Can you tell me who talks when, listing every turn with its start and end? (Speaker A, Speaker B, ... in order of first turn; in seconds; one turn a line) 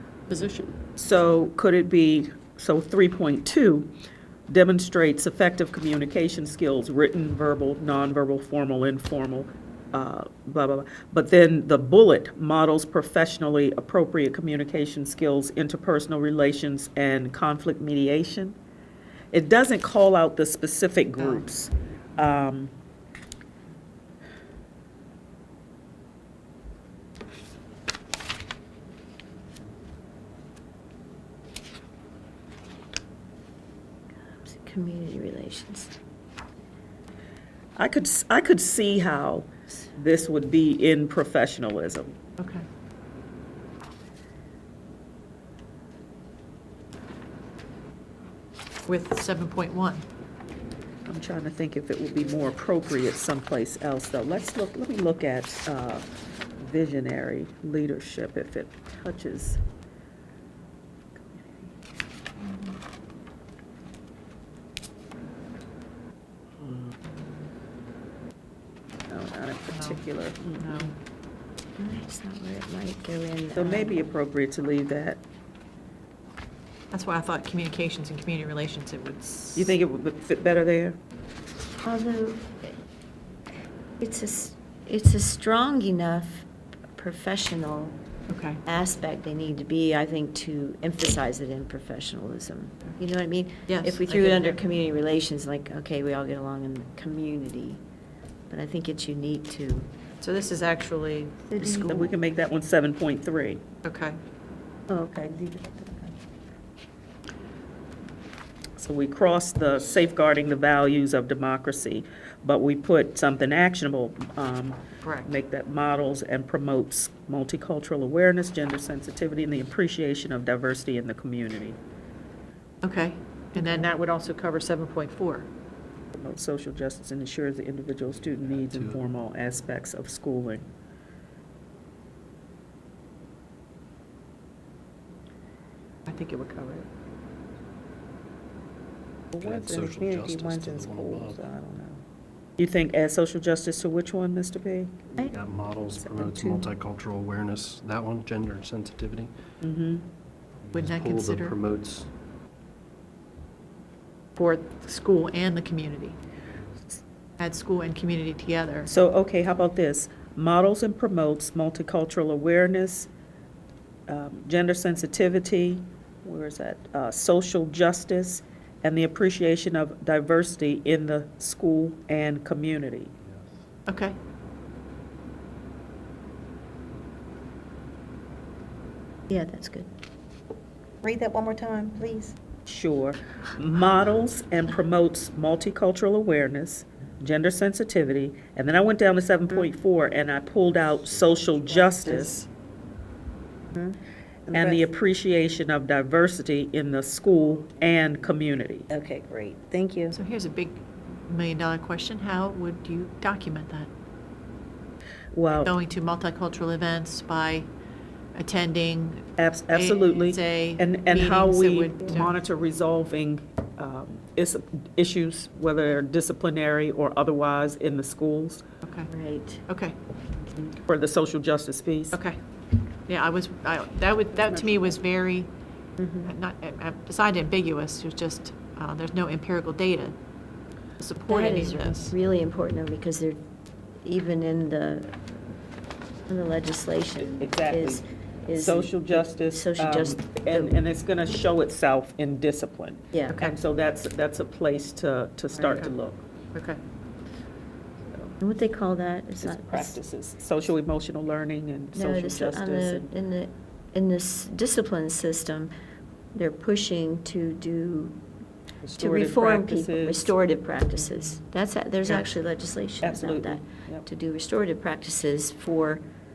Speaker A: 0.3-0.7
Speaker B: 0.8-3.9
Speaker B: 4.5-18.6
Speaker B: 19.3-22.7
Speaker A: 21.2-21.4
Speaker C: 34.2-35.9
Speaker B: 37.8-42.1
Speaker A: 42.4-42.6
Speaker A: 48.9-50.0
Speaker B: 51.1-56.0
Speaker B: 56.6-59.6
Speaker B: 69.1-70.9
Speaker A: 69.7-70.0
Speaker A: 70.6-70.9
Speaker C: 71.8-74.0
Speaker B: 73.5-75.2
Speaker A: 76.9-79.8
Speaker B: 79.5-81.0
Speaker C: 81.8-82.7
Speaker C: 84.0-88.0
Speaker A: 88.3-88.6
Speaker C: 88.6-97.8
Speaker A: 93.7-94.6
Speaker C: 98.5-99.9
Speaker A: 100.2-101.8
Speaker D: 101.5-102.0
Speaker C: 101.6-102.1
Speaker B: 101.9-103.6
Speaker A: 103.8-104.2
Speaker D: 104.9-106.1
Speaker B: 108.8-121.8
Speaker A: 115.0-115.3
Speaker A: 122.8-125.5
Speaker C: 123.5-123.8
Speaker B: 126.2-130.7
Speaker E: 128.1-129.0
Speaker A: 136.1-136.9
Speaker B: 139.3-142.0
Speaker E: 139.4-141.4
Speaker B: 142.6-145.2
Speaker E: 145.2-149.3
Speaker B: 145.9-146.5
Speaker B: 149.6-150.1
Speaker E: 150.7-152.1
Speaker A: 150.7-151.6
Speaker A: 154.3-156.2
Speaker A: 157.4-158.9
Speaker B: 158.8-163.1
Speaker B: 164.1-173.1
Speaker E: 173.2-173.5
Speaker A: 173.9-174.2
Speaker C: 179.3-179.9
Speaker D: 181.0-182.3
Speaker B: 182.7-192.4
Speaker D: 194.5-194.9
Speaker B: 194.5-198.9
Speaker D: 198.9-200.1
Speaker A: 200.1-203.9
Speaker B: 205.3-205.7
Speaker A: 205.5-207.7
Speaker A: 208.3-212.3
Speaker B: 209.4-218.6
Speaker A: 218.8-219.1
Speaker C: 219.1-219.6
Speaker A: 219.7-219.9
Speaker B: 220.7-222.2
Speaker A: 222.1-222.4
Speaker A: 223.1-225.5
Speaker C: 226.0-226.3
Speaker A: 226.2-230.2
Speaker A: 231.0-232.1
Speaker C: 231.3-233.4
Speaker C: 234.0-235.2
Speaker C: 236.3-240.8
Speaker B: 237.2-238.0
Speaker B: 238.5-246.2
Speaker C: 243.1-243.4
Speaker A: 243.3-243.6
Speaker A: 245.6-245.9
Speaker A: 246.5-246.8
Speaker C: 248.4-250.0
Speaker B: 249.4-253.1
Speaker C: 251.9-255.7
Speaker C: 256.3-258.2
Speaker B: 258.8-260.3
Speaker C: 259.0-266.0
Speaker B: 263.0-264.1